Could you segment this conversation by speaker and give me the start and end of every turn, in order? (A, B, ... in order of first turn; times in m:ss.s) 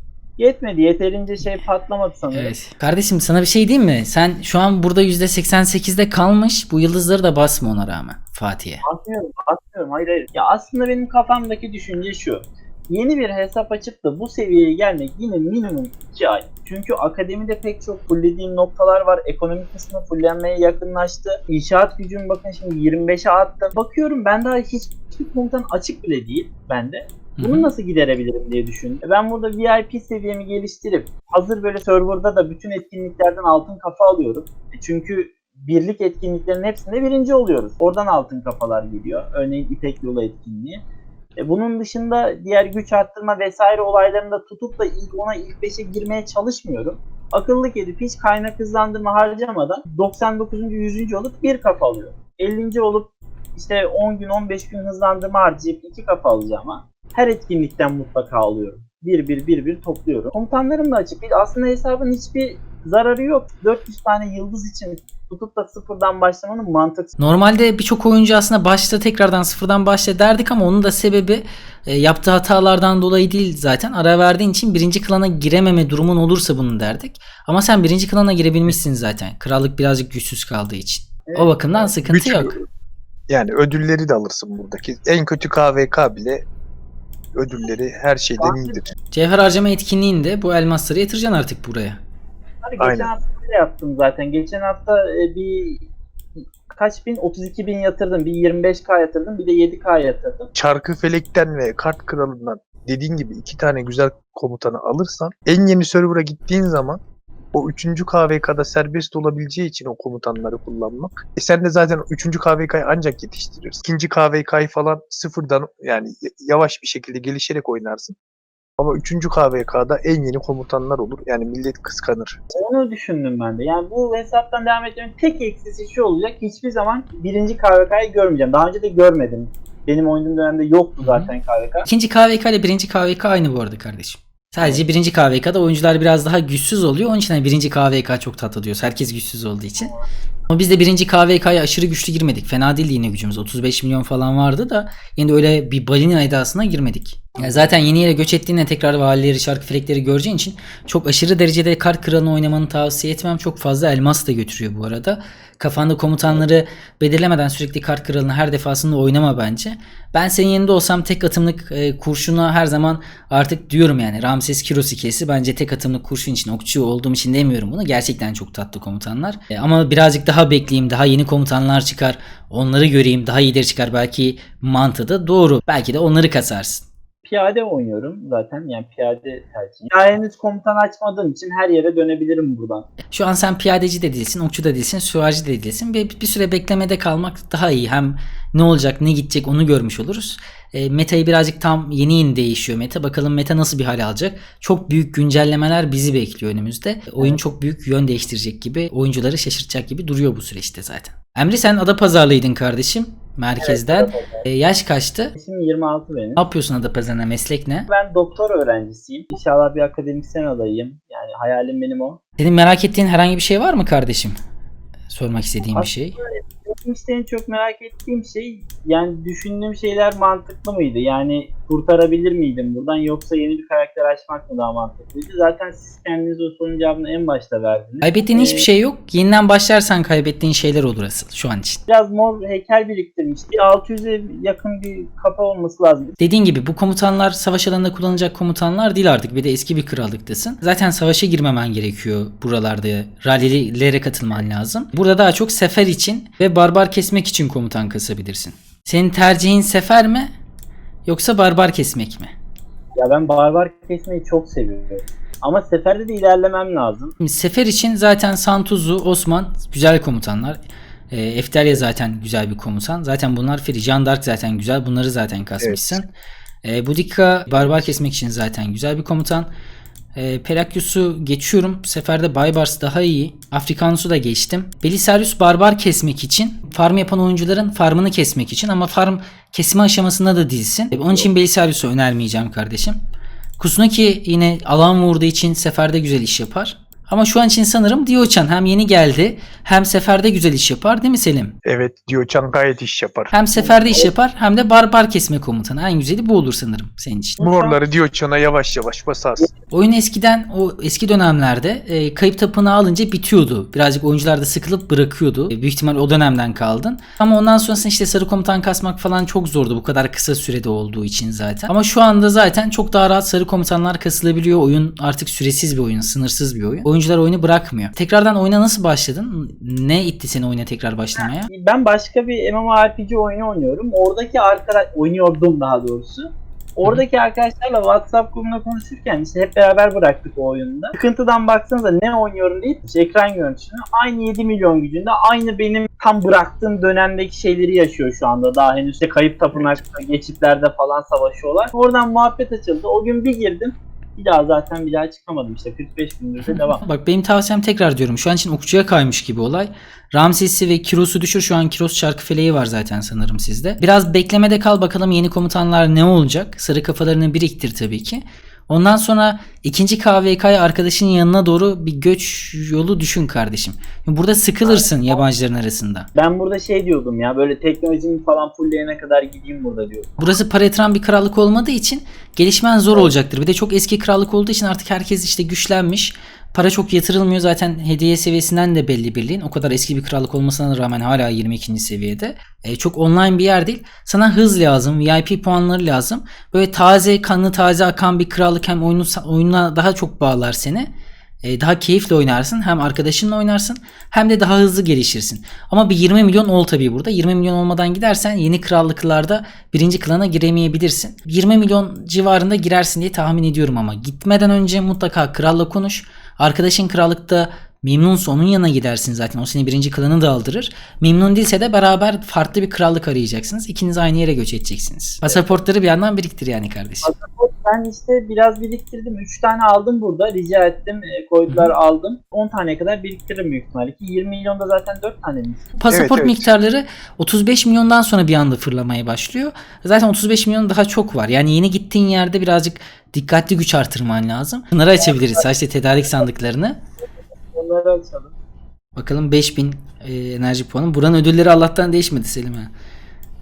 0:00.4-0:02.5 A
0:02.3-0:08.8 B
0:08.8-0:40.8 A
0:27.4-0:27.7 B
0:41.4-1:07.1 A
1:07.2-1:22.6 B
1:21.3-1:21.9 A
1:22.0-1:22.6 C
1:23.3-1:26.4 C
1:27.3-1:28.9 C
1:28.4-1:28.9 A
1:29.1-1:32.0 B
1:32.6-1:35.8 A
1:32.8-1:33.1 C
1:36.7-1:40.5 A
1:40.5-1:47.0 C
1:47.5-1:58.2 C
1:58.8-2:02.4 C
2:02.5-2:11.9 A
2:11.0-2:11.3 B
2:11.8-2:19.9 B
2:14.6-2:14.8 A
2:19.8-2:20.1 A
2:20.5-2:56.8 B
2:57.2-3:02.9 A
3:03.1-3:25.3 B
3:23.6-3:24.4 A
3:25.3-3:26.4 A
3:26.4-3:27.9 B
3:27.9-3:32.2 A
3:32.4-3:34.4 B
3:35.1-3:36.2 B
3:35.7-3:48.7 A
3:48.0-3:51.8 B
3:51.9-3:56.2 A
3:56.2-4:10.3 B
4:11.0-4:12.3 B
4:13.0-4:17.1 A
4:17.2-4:26.0 B
4:25.6-4:26.1 C
4:26.6-4:29.5 B
4:30.1-4:43.0 B
4:43.6-4:51.5 B
4:51.6-4:53.3 C
4:53.3-4:57.4 B
4:53.6-4:54.1 A
4:57.4-4:57.8 A
4:57.4-4:59.5 C
4:59.7-5:21.5 B
5:21.2-5:46.8 A
5:46.4-6:06.1 B
6:04.6-6:05.2 A
6:06.1-6:10.2 A
6:10.2-6:30.9 B
6:12.9-6:13.1 A
6:31.4-6:57.1 B
6:55.2-6:55.6 A
6:57.0-7:05.7 A
7:01.5-7:01.7 B
7:05.8-7:16.8 B
7:05.9-7:06.5 C
7:15.0-7:15.4 A
7:17.5-7:18.3 A
7:19.0-7:22.7 B